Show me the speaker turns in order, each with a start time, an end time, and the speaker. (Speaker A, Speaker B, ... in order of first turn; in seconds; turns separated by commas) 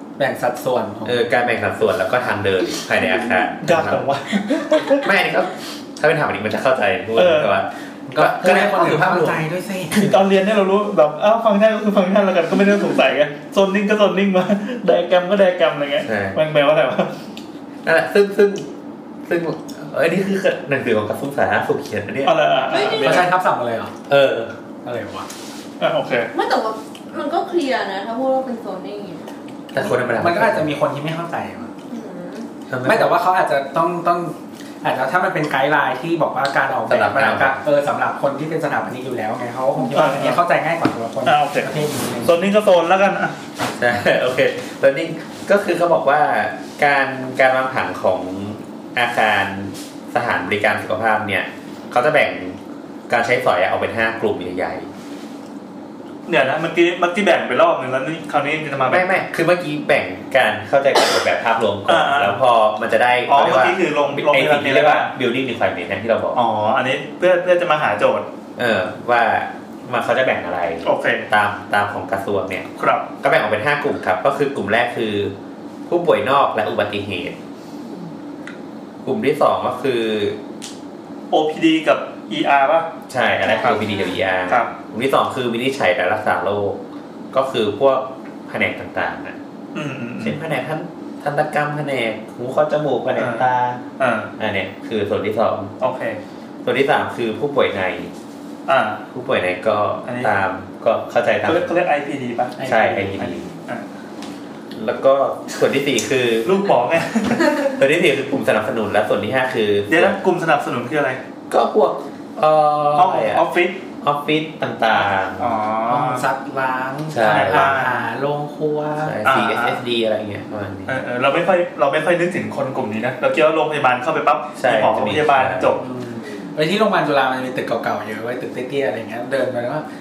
Speaker A: 0.2-1.2, Speaker B: 1.0-4.0, Speaker C: 3.6-5.1, Speaker B: 5.0-9.4, Speaker C: 7.2-7.5, Speaker A: 8.1-10.1, Speaker C: 9.9-17.1, Speaker B: 16.0-16.4, Speaker B: 17.8-18.7, Speaker B: 19.3-23.2, Speaker C: 22.2-23.3, Speaker D: 22.7-23.3, Speaker A: 23.0-23.9, Speaker B: 24.1-24.6, Speaker A: 24.8-25.2, Speaker C: 25.8-26.3, Speaker D: 26.3-29.3, Speaker A: 29.7-31.7, Speaker B: 29.7-30.7, Speaker D: 31.9-32.5, Speaker B: 32.7-33.1, Speaker A: 32.8-42.4, Speaker B: 36.9-37.5, Speaker C: 39.9-40.4, Speaker C: 41.2-41.7, Speaker C: 42.2-43.4, Speaker B: 43.8-52.6, Speaker B: 53.1-54.9, Speaker C: 56.3-59.2, Speaker B: 58.9-66.4, Speaker C: 61.9-62.4, Speaker C: 63.3-65.1, Speaker C: 66.3-68.3, Speaker B: 68.5-72.7, Speaker C: 70.8-71.3, Speaker C: 72.8-73.1, Speaker B: 73.2-75.3, Speaker B: 75.9-77.4, Speaker B: 79.0-80.4, Speaker C: 81.3-82.9, Speaker B: 83.1-86.8, Speaker D: 83.4-84.2, Speaker C: 84.5-84.7, Speaker B: 87.3-89.4, Speaker C: 89.7-90.4, Speaker B: 90.2-93.8, Speaker C: 93.2-93.4, Speaker C: 94.0-94.3, Speaker B: 94.4-95.7, Speaker C: 95.8-96.2, Speaker B: 96.6-98.1, Speaker C: 98.7-99.0, Speaker B: 99.1-101.7, Speaker C: 100.0-100.3, Speaker C: 101.5-103.8, Speaker A: 102.6-103.1, Speaker B: 102.7-103.5, Speaker B: 104.7-106.5, Speaker C: 106.4-107.7, Speaker B: 107.7-110.2, Speaker C: 109.9-111.2, Speaker B: 111.5-113.4, Speaker C: 112.9-113.8, Speaker B: 114.0-115.5, Speaker C: 115.4-116.2, Speaker A: 115.9-119.2, Speaker B: 117.1-117.7, Speaker C: 117.2-118.0, Speaker B: 119.0-120.9, Speaker C: 119.2-119.8, Speaker C: 120.9-125.8, Speaker B: 124.6-125.8, Speaker A: 125.8-129.8, Speaker D: 126.2-126.5